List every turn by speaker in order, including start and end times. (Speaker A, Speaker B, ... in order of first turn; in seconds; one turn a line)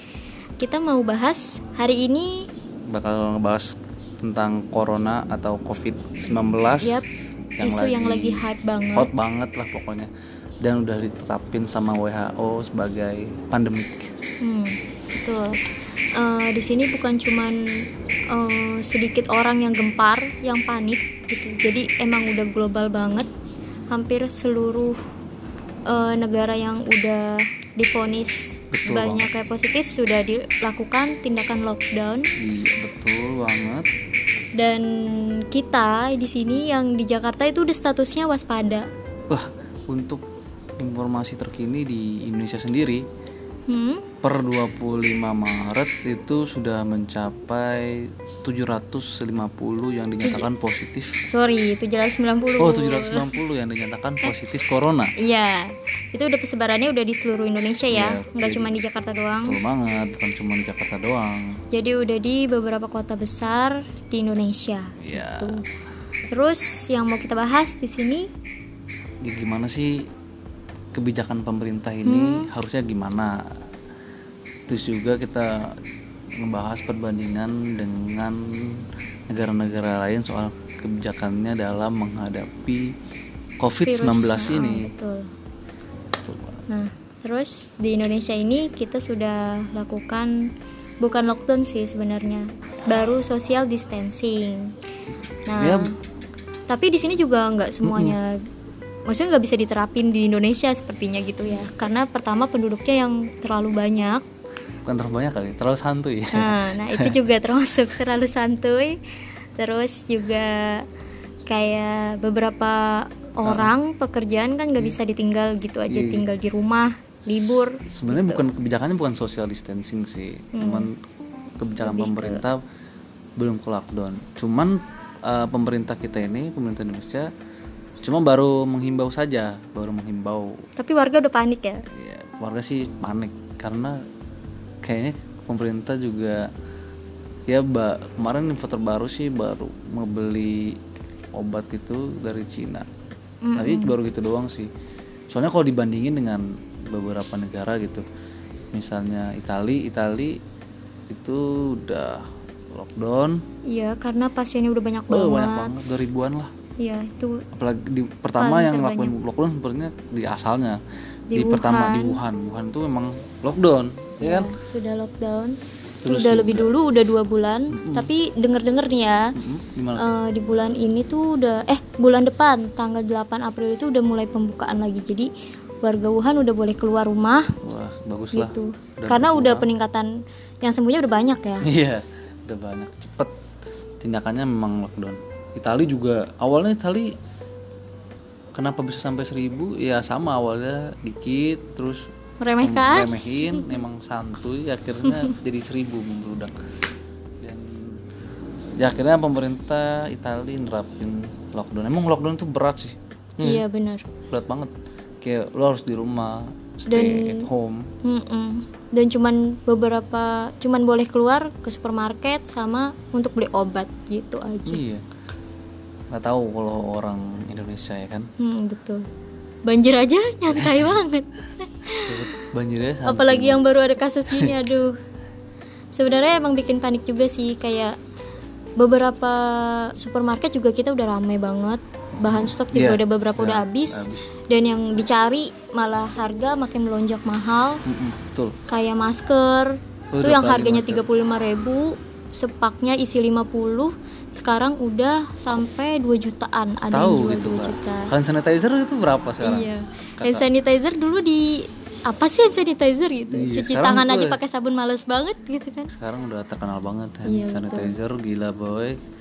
Speaker A: 0.6-2.5
Speaker B: 2.9-7.0
Speaker B: 7.6-10.1
Speaker A: 7.6-9.1
Speaker B: 10.6-14.1
Speaker A: 14.4-15.6
Speaker A: 16.1-23.3
Speaker A: 23.9-25.0
Speaker A: 25.9-32.3
Speaker B: 28.7-29.3
Speaker B: 32.4-33.9
Speaker A: 34.5-38.9
Speaker B: 39.3-40.2
Speaker B: 40.8-43.0
Speaker A: 43.7-44.1
Speaker B: 44.2-51.2
Speaker A: 50.2-50.5
Speaker A: 51.2-53.4
Speaker B: 52.6-55.1
Speaker A: 55.2-59.6
Speaker B: 57.9-58.7
Speaker B: 59.5-61.6
Speaker A: 61.7-65.6
Speaker B: 65.0-65.6
Speaker A: 66.3-68.2
Speaker B: 69.2-70.0
Speaker B: 70.9-73.4
Speaker A: 72.0-72.5
Speaker B: 74.7-75.7
Speaker B: 76.4-82.9
Speaker B: 83.6-84.9
Speaker A: 83.8-85.3
Speaker A: 86.7-90.3
Speaker A: 91.0-94.7
Speaker A: 95.5-95.9
Speaker B: 95.5-95.9
Speaker A: 96.7-98.4
Speaker B: 97.8-98.2
Speaker A: 99.0-104.2
Speaker B: 104.8-107.2
Speaker A: 106.3-109.0
Speaker A: 109.6-110.8
Speaker A: 111.5-118.4
Speaker B: 113.4-113.7
Speaker B: 115.9-116.2
Speaker B: 117.2-120.9
Speaker A: 120.5-120.9
Speaker B: 121.6-122.6
Speaker A: 121.8-122.4
Speaker B: 123.4-127.3
Speaker B: 128.0-130.5
Speaker A: 130.8-131.8
Speaker B: 131.9-134.0
Speaker B: 134.8-136.5
Speaker B: 137.5-140.8
Speaker B: 141.3-142.9
Speaker A: 143.4-144.0
Speaker B: 143.6-144.7
Speaker B: 145.3-148.1
Speaker B: 148.7-150.4
Speaker B: 151.1-153.4
Speaker A: 153.7-155.8
Speaker B: 155.1-156.5
Speaker A: 156.8-157.4
Speaker B: 157.5-160.8
Speaker A: 158.4-159.1
Speaker A: 161.3-162.2
Speaker B: 161.3-164.5
Speaker A: 164.2-169.3
Speaker B: 166.0-166.7
Speaker B: 167.7-168.1
Speaker B: 169.3-170.0
Speaker A: 169.9-175.3
Speaker A: 175.8-177.5
Speaker B: 177.6-179.7
Speaker A: 178.3-181.7
Speaker B: 181.6-183.3
Speaker B: 184.0-187.1
Speaker B: 188.5-192.1
Speaker A: 192.4-193.3
Speaker B: 192.6-196.5
Speaker B: 197.4-198.0
Speaker B: 198.8-203.6
Speaker A: 203.4-204.1
Speaker B: 204.3-207.9
Speaker A: 206.9-207.5
Speaker A: 208.0-214.8
Speaker B: 214.7-215.0
Speaker B: 216.1-218.3
Speaker A: 218.4-219.0
Speaker A: 219.7-222.2
Speaker B: 220.5-220.9
Speaker B: 222.1-223.6
Speaker A: 223.1-224.9
Speaker B: 224.3-224.6
Speaker A: 225.9-227.9
Speaker A: 228.8-237.8
Speaker B: 232.2-234.3
Speaker B: 237.8-238.6
Speaker A: 238.7-248.1
Speaker B: 240.1-241.0
Speaker B: 246.8-250.4
Speaker A: 249.4-255.9
Speaker B: 253.3-254.4
Speaker B: 255.9-259.0
Speaker A: 257.3-257.9